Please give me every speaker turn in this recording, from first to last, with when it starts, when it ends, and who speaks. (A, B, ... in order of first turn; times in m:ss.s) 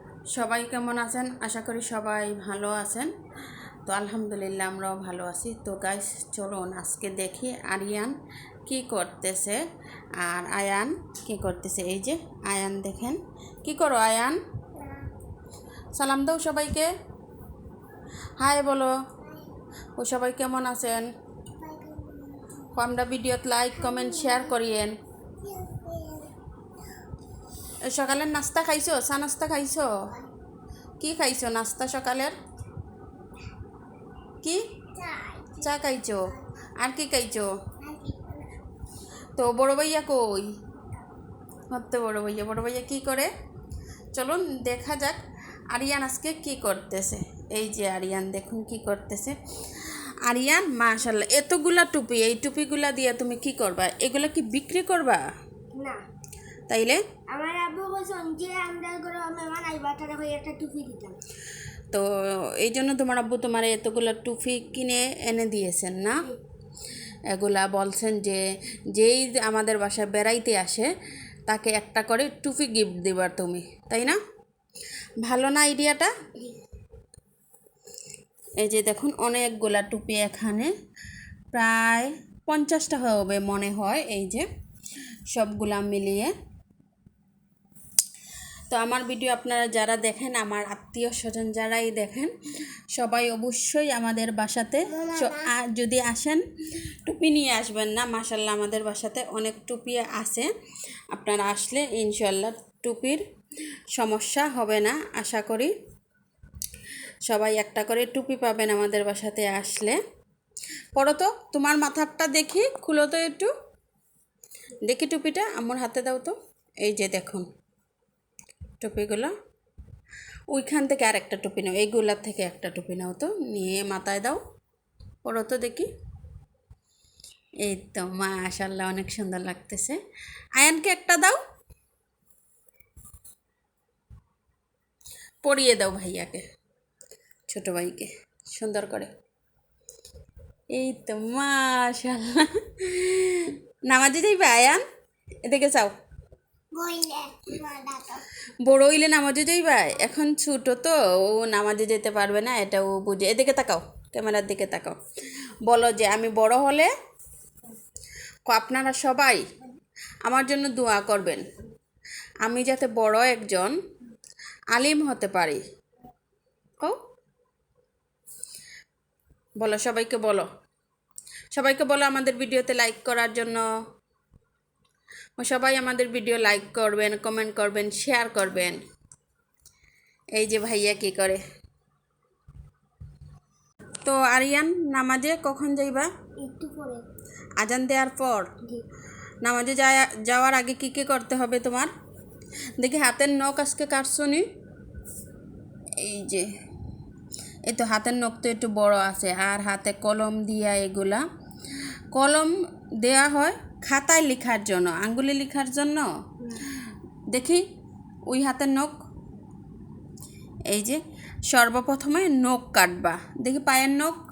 0:00.3-0:03.1 A
0:03.8-0:08.1 A
0:08.6-0:09.6 A
0:10.2-0:14.4 A
0:14.8-0:15.1 B
0:15.9-0:16.9 A
0:18.4-0:18.9 A
0:19.2-0:19.5 B
0:20.0-0:21.1 A
0:21.6-0:22.7 B
0:22.7-0:24.9 A
0:23.8-0:24.5 B
0:25.4-0:26.3 B
0:27.8-0:30.0 A
0:31.0-0:32.3 A
0:34.9-0:35.7 B
0:35.6-0:37.5 A
0:37.8-0:38.5 B
0:39.3-0:40.6 A
0:41.7-0:43.3 A
0:44.1-0:45.2 A
0:45.7-0:55.3 A
0:55.7-0:56.0 B
0:56.7-0:57.0 A
0:57.3-1:01.2 B
1:02.6-1:06.2 A
1:07.3-1:10.9 A
1:11.5-1:14.2 A
1:15.2-1:16.1 A
1:18.6-1:20.7 A
1:21.5-1:24.5 A
1:25.3-1:26.3 A
1:28.7-1:32.3 A
1:32.9-1:36.4 A
1:34.9-1:35.5 B
1:37.0-1:40.5 A
1:41.1-1:43.2 A
1:43.9-1:45.7 A
1:47.2-1:50.0 A
1:50.9-1:53.5 A
1:54.8-1:57.5 A
1:58.8-1:59.3 A
2:00.5-2:04.4 A
2:05.2-2:05.9 A
2:07.6-2:10.0 A
2:10.6-2:11.4 A
2:15.4-2:16.4 A
2:17.5-2:19.1 A
2:20.7-2:24.8 A
2:25.4-2:25.9 A
2:26.7-2:28.2 B
2:28.6-2:35.0 A
2:35.6-2:36.9 A
2:38.4-2:39.4 A
2:40.2-2:41.4 A
2:42.4-2:43.7 A
2:44.7-2:45.6 A
2:49.6-2:50.5 A
2:51.5-2:53.6 A
2:55.4-2:58.8 A
3:00.3-3:01.4 A
3:04.0-3:06.1 A
3:06.4-3:07.0 B
3:07.6-3:08.5 A
3:09.4-3:11.9 A
3:12.8-3:14.4 A
3:16.0-3:16.5 A
3:17.7-3:21.3 A
3:22.1-3:27.6 A
3:28.3-3:28.9 A
3:30.7-3:34.2 A